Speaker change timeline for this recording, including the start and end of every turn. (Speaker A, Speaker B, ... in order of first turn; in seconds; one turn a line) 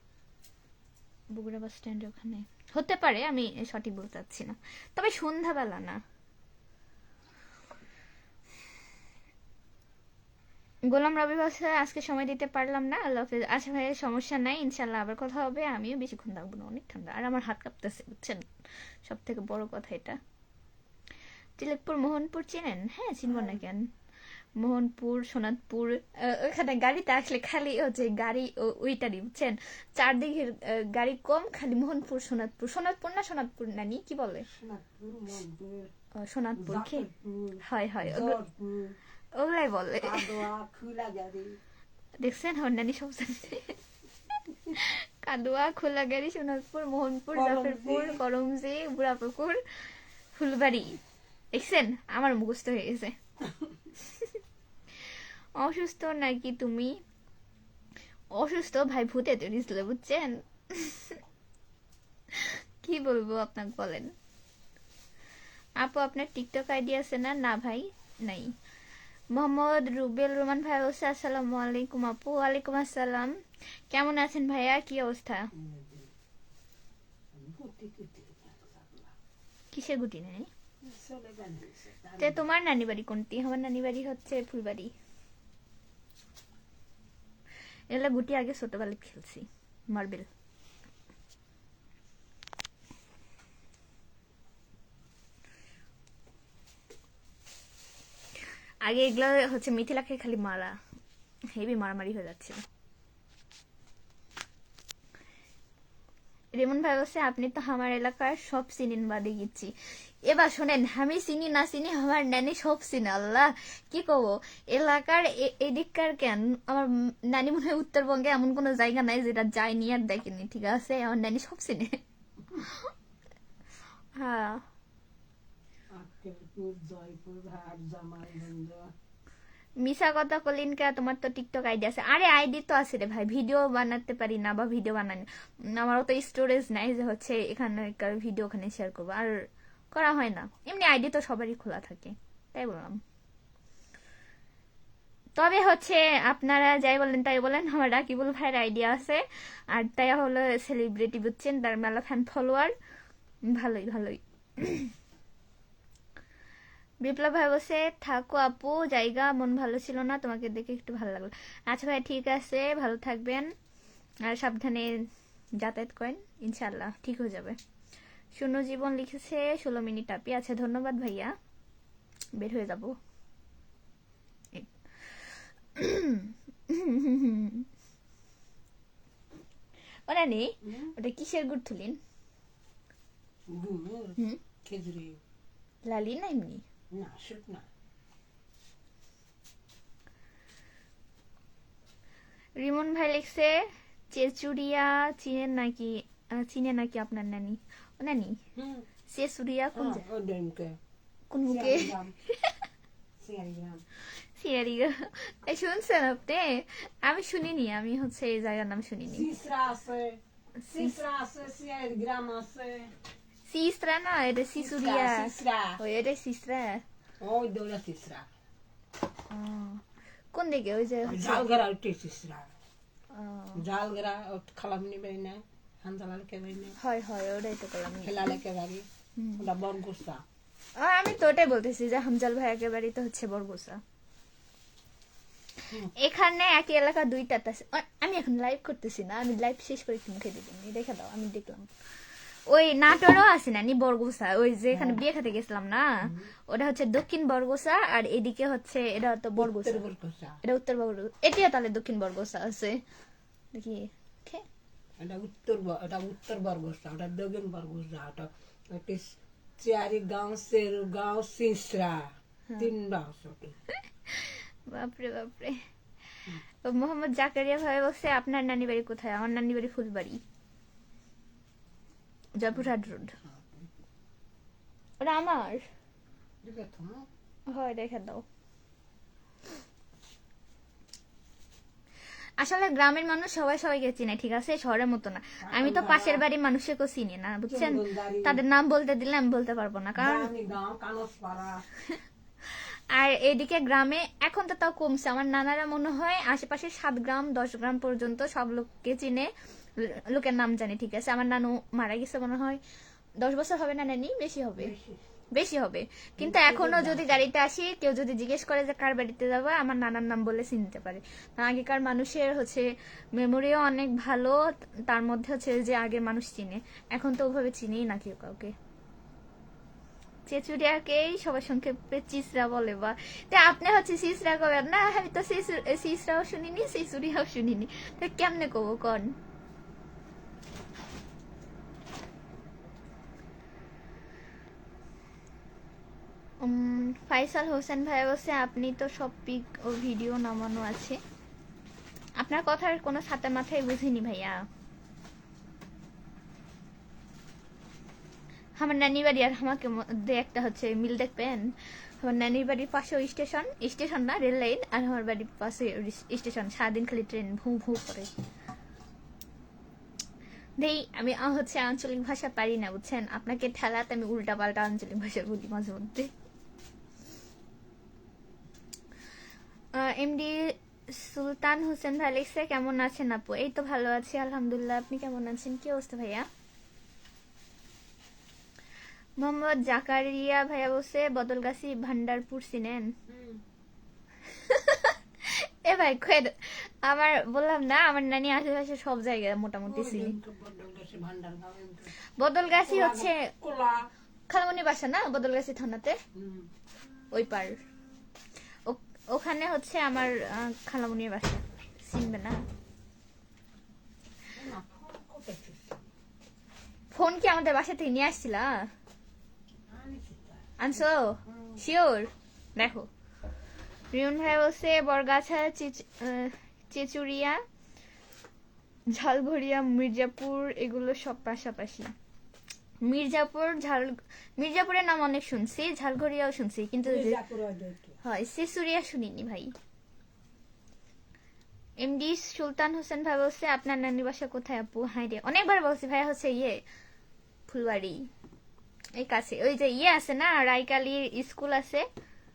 Speaker A: 1.3-6.0
Speaker A: 10.9-18.5
Speaker A: 19.1-20.2
Speaker A: 21.6-23.9
Speaker B: 23.3-23.6
Speaker A: 24.6-34.5
Speaker B: 34.5-35.9
Speaker A: 36.1-37.1
Speaker B: 36.6-39.0
Speaker A: 37.6-38.4
Speaker A: 39.4-40.4
Speaker B: 40.0-41.5
Speaker A: 42.2-43.8
Speaker A: 44.7-49.6
Speaker B: 47.3-48.2
Speaker A: 50.4-51.0
Speaker A: 51.5-53.1
Speaker A: 54.0-54.4
Speaker A: 55.6-56.9
Speaker A: 58.4-61.2
Speaker A: 62.3-64.1
Speaker A: 65.8-68.5
Speaker A: 69.3-73.3
Speaker A: 73.9-75.5
Speaker B: 75.5-76.1
Speaker B: 77.3-79.2
Speaker A: 79.7-80.5
Speaker B: 80.8-82.5
Speaker A: 82.2-84.9
Speaker A: 87.9-90.3
Speaker A: 98.8-100.8
Speaker A: 101.5-102.6
Speaker A: 106.5-109.7
Speaker A: 110.2-122.0
Speaker A: 122.5-122.9
Speaker A: 124.2-124.6
Speaker B: 126.0-128.9
Speaker A: 129.8-139.3
Speaker A: 139.9-143.0
Speaker A: 145.4-152.7
Speaker A: 153.5-154.9
Speaker A: 157.0-163.5
Speaker A: 164.2-164.9
Speaker A: 165.6-167.6
Speaker A: 168.3-171.3
Speaker A: 172.4-172.9
Speaker A: 174.5-177.7
Speaker A: 180.1-182.0
Speaker B: 180.6-180.9
Speaker B: 183.5-185.2
Speaker A: 185.9-186.6
Speaker B: 186.9-187.7
Speaker A: 192.6-198.4
Speaker B: 198.6-198.9
Speaker A: 199.1-200.0
Speaker B: 199.7-200.8
Speaker A: 201.3-202.6
Speaker B: 201.5-202.2
Speaker B: 203.2-203.8
Speaker A: 204.4-209.3
Speaker B: 209.1-212.9
Speaker A: 210.7-210.9
Speaker A: 213.5-216.8
Speaker B: 214.6-215.8
Speaker B: 217.2-218.3
Speaker A: 219.3-221.5
Speaker B: 221.0-222.5
Speaker A: 223.1-223.6
Speaker B: 223.6-226.8
Speaker A: 226.8-228.4
Speaker B: 228.0-228.9
Speaker A: 229.2-229.4
Speaker B: 229.4-230.2
Speaker A: 230.8-233.8
Speaker A: 235.9-241.7
Speaker A: 242.5-245.9
Speaker B: 244.7-245.0
Speaker A: 246.5-249.8
Speaker B: 249.4-250.4
Speaker A: 250.4-252.8
Speaker A: 253.5-254.4
Speaker B: 255.0-263.6
Speaker A: 264.1-265.6
Speaker A: 266.6-270.2
Speaker A: 272.4-273.2
Speaker B: 272.5-273.7
Speaker A: 275.0-275.6
Speaker B: 276.4-277.1
Speaker A: 277.5-278.2
Speaker A: 282.4-290.3
Speaker B: 285.4-286.2
Speaker B: 287.5-288.4
Speaker B: 290.0-291.6
Speaker A: 291.9-302.6
Speaker A: 303.2-304.7
Speaker B: 304.6-305.0
Speaker A: 305.3-318.5
Speaker B: 306.2-307.3
Speaker A: 320.3-329.1
Speaker A: 336.4-341.0
Speaker A: 342.2-344.4
Speaker A: 348.6-351.4
Speaker A: 352.0-358.1
Speaker A: 360.6-366.1
Speaker A: 369.8-376.3
Speaker A: 379.2-382.9
Speaker B: 383.1-383.4
Speaker A: 384.3-390.2
Speaker B: 389.7-391.9
Speaker A: 392.2-393.3
Speaker B: 392.6-393.9
Speaker A: 394.3-396.0
Speaker B: 396.1-396.5
Speaker A: 397.1-397.6
Speaker A: 398.7-402.4
Speaker B: 404.3-405.8
Speaker A: 406.9-408.7
Speaker B: 409.7-411.6
Speaker A: 410.6-412.9
Speaker A: 413.9-417.4
Speaker A: 418.9-421.9
Speaker A: 422.8-427.2
Speaker B: 426.8-428.0
Speaker A: 428.0-429.5
Speaker A: 431.8-436.6
Speaker A: 437.5-438.1
Speaker A: 439.0-441.9